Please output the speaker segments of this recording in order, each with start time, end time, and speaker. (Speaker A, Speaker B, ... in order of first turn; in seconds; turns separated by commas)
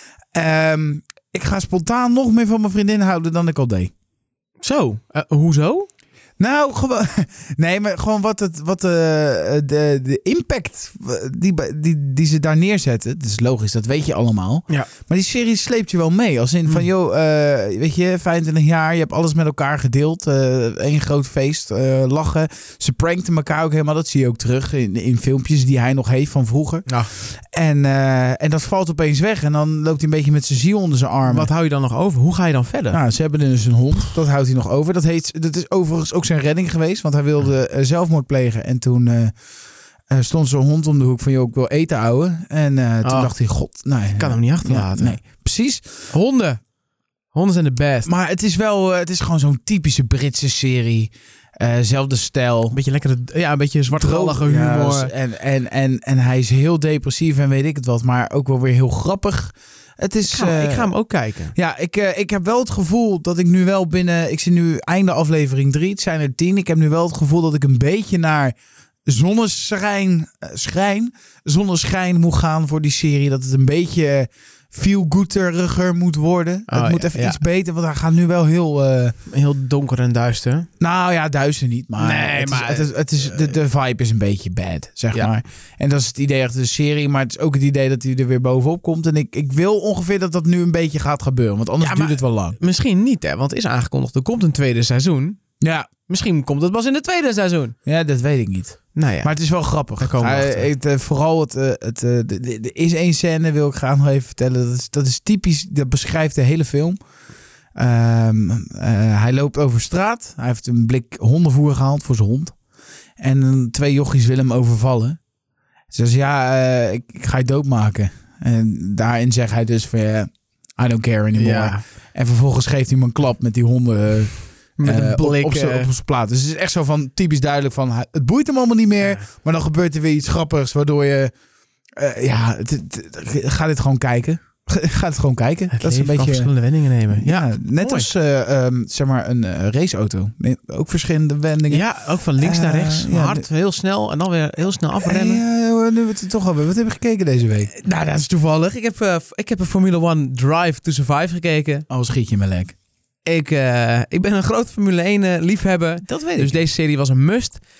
Speaker A: 0.3-3.9, Speaker B: 4.6-5.9, Speaker A: 6.4-31.5, Speaker B: 31.2-33.0, Speaker A: 32.9-39.3, Speaker A: 40.1-46.1, Speaker B: 43.0-43.3, Speaker B: 44.1-45.2, Speaker B: 46.1-46.6, Speaker B: 47.3-48.1, Speaker A: 48.0-52.8, Speaker B: 52.7-55.1, Speaker A: 53.9-60.9, Speaker B: 60.2-61.5, Speaker A: 61.5-68.5, Speaker A: 69.0-79.1, Speaker B: 76.7-77.4, Speaker B: 79.3-80.7, Speaker A: 80.8-92.6, Speaker B: 82.0-83.3, Speaker B: 91.8-95.4, Speaker A: 95.6-95.9, Speaker B: 96.1-97.7, Speaker A: 97.8-107.0, Speaker B: 98.9-99.3, Speaker B: 100.0-100.7, Speaker A: 107.7-112.5, Speaker A: 113.2-115.2, Speaker A: 115.9-131.3, Speaker B: 121.3-121.8, Speaker B: 124.8-125.9, Speaker A: 131.9-136.5, Speaker B: 135.7-138.1, Speaker A: 137.1-141.8, Speaker B: 141.7-145.4, Speaker A: 142.4-143.4, Speaker A: 145.0-147.7, Speaker B: 147.7-151.8, Speaker A: 151.9-152.7, Speaker B: 153.2-157.6, Speaker A: 156.1-156.6